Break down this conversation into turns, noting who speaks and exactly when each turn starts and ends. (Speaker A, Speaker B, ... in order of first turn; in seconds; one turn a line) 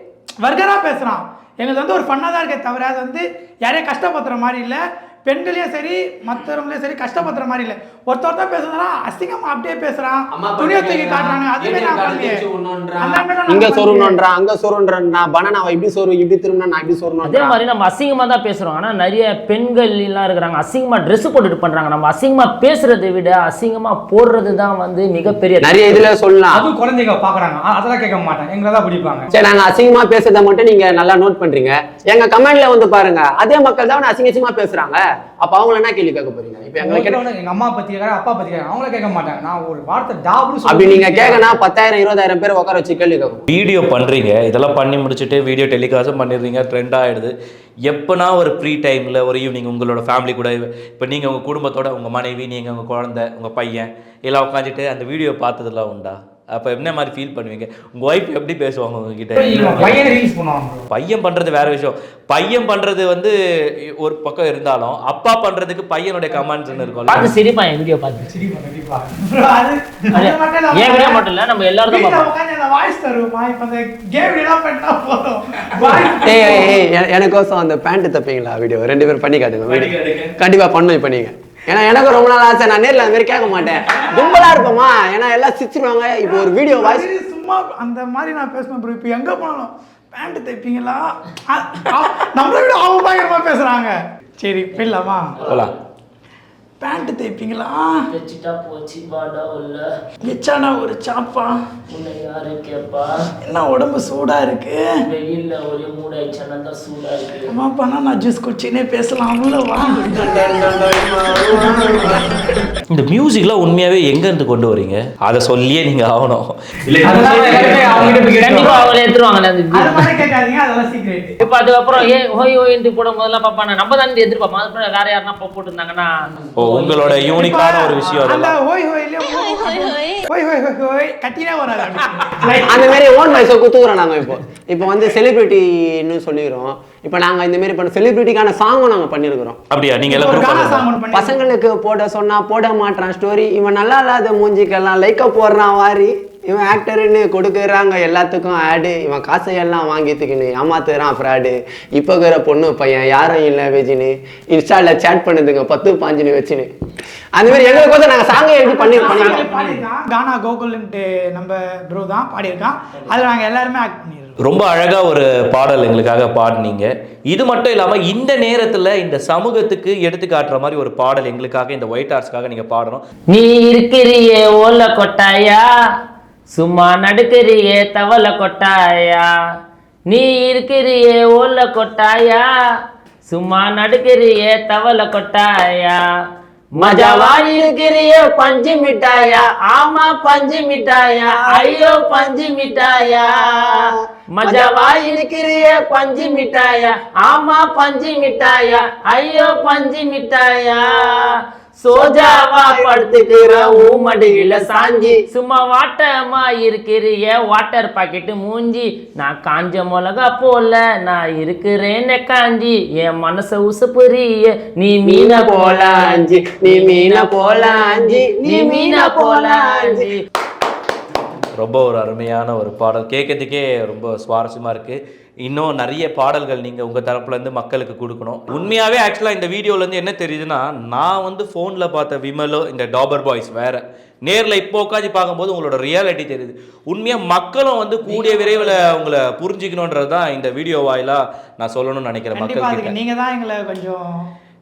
Speaker A: 0.4-12.4
Speaker B: 10.3-17.6
Speaker A: 13.0-14.2
Speaker C: 17.2-26.0
Speaker B: 25.6-26.6
Speaker D: 26.5-29.3
Speaker B: 29.3-37.2
Speaker D: 36.8-41.6
Speaker B: 40.6-43.4
Speaker E: 43.5-47.3
Speaker E: 47.9-60.0
Speaker D: 59.3-60.9
Speaker C: 59.6-60.0
Speaker E: 60.9-63.3
Speaker E: 64.0-67.3
Speaker C: 67.1-68.3
Speaker D: 68.2-69.1
Speaker A: 69.1-71.2
Speaker C: 70.1-72.3
Speaker A: 71.9-76.8
Speaker B: 76.2-87.1
Speaker E: 79.7-80.4
Speaker A: 84.0-84.5
Speaker A: 86.2-95.3
Speaker C: 94.7-95.8
Speaker E: 95.5-95.7
Speaker A: 96.8-98.1
Speaker C: 98.1-99.8
Speaker A: 100.2-101.6
Speaker C: 101.9-103.2
Speaker A: 103.4-104.9
Speaker C: 105.0-107.5
Speaker A: 107.5-110.3
Speaker B: 110.0-112.3
Speaker E: 112.9-118.2
Speaker D: 117.0-118.9
Speaker C: 118.3-120.2
Speaker A: 119.7-121.4
Speaker C: 121.4-127.3
Speaker E: 126.6-128.5
Speaker A: 127.3-133.0
Speaker B: 132.6-139.6
Speaker E: 139.7-140.8
Speaker A: 140.1-141.3
Speaker B: 141.1-156.7
Speaker B: 157.3-159.6
Speaker A: 157.4-157.8
Speaker A: 158.6-164.4
Speaker E: 164.4-173.0
Speaker C: 173.3-175.6
Speaker C: 176.5-179.3
Speaker C: 180.1-182.5
Speaker C: 183.3-186.0
Speaker C: 186.8-220.2
Speaker B: 186.8-187.4
Speaker B: 193.7-194.9
Speaker B: 201.9-205.2
Speaker B: 215.0-220.1
Speaker E: 221.6-242.9
Speaker D: 238.2-238.6
Speaker A: 242.3-244.3